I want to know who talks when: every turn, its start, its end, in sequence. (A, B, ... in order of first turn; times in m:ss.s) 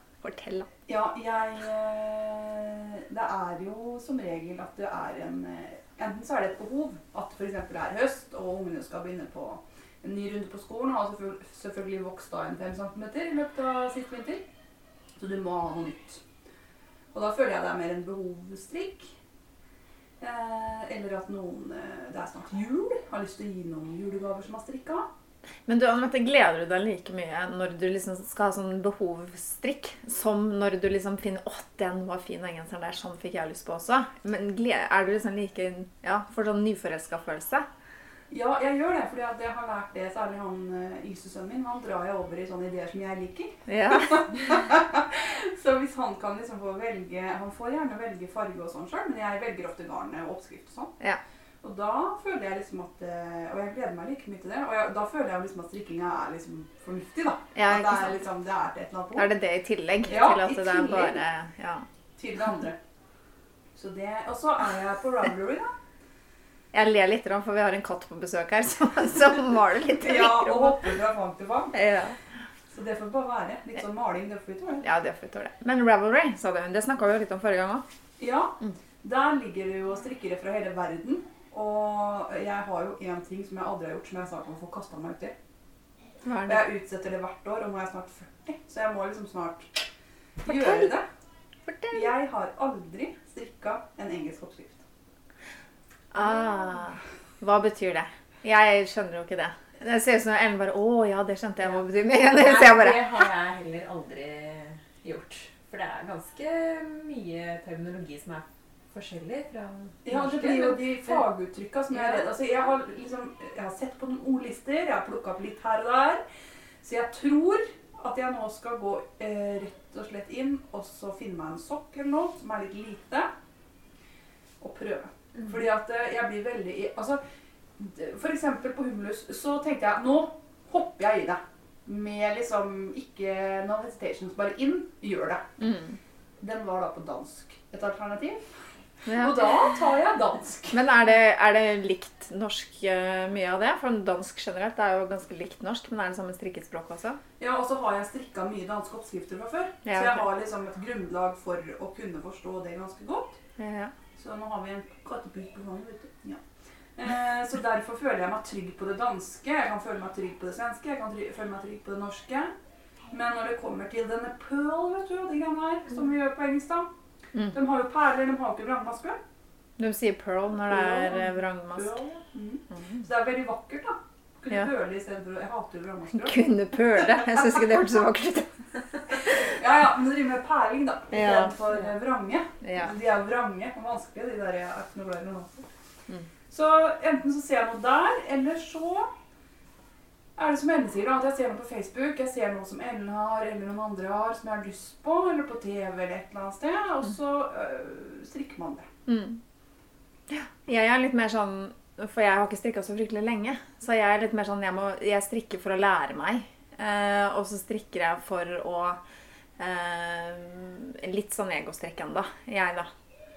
0:00.2-0:00.7 A
0:00.9-0:14.4 B
0:15.2-0:16.2 B
0:17.1-0:19.1 B
0:20.2-0:25.1 B
0:25.6-0:37.6 A
0:38.3-0:50.9 B
0:43.7-0:44.3 A
0:51.6-0:59.3 B
0:57.6-0:58.2 A
0:59.1-1:01.9 A
1:00.0-1:01.2 B
1:02.2-1:02.8 B
1:03.8-1:05.7 B
1:06.7-1:10.8 A
1:10.0-1:11.7 B
1:11.7-1:12.2 A
1:12.7-1:14.8 B
1:14.8-1:17.8 A
1:18.2-1:25.3 B
1:26.2-1:26.7 A
1:26.4-1:29.7 B
1:30.4-1:31.1 B
1:30.4-1:30.9 A
1:31.6-1:32.1 A
1:31.9-1:34.8 B
1:36.1-1:43.2 A
1:42.2-1:51.2 C
1:50.0-1:56.2 B
1:51.9-1:52.4 C
1:56.8-2:03.3 B
2:04.6-2:07.2 B
2:07.8-2:15.7 B
2:15.6-2:16.0 A
2:16.4-2:18.4 B
2:19.0-2:20.8 B
2:19.0-2:19.5 A
2:20.7-2:27.2 A
2:27.4-2:33.4 B
2:29.8-2:30.2 A
2:33.6-2:33.9 A
2:34.2-2:36.4 B
2:37.0-2:42.5 B
2:43.1-2:46.9 B
2:47.5-2:49.2 B
2:49.8-2:52.0 A
2:50.6-2:56.5 B
2:56.1-2:59.4 A
2:59.3-3:05.7 B
3:01.1-3:01.8 A
3:02.6-3:02.9 A
3:06.5-3:09.1 B
3:10.4-3:18.9 B
3:19.0-3:19.4 A
3:20.3-3:29.0 A
3:29.6-3:32.9 A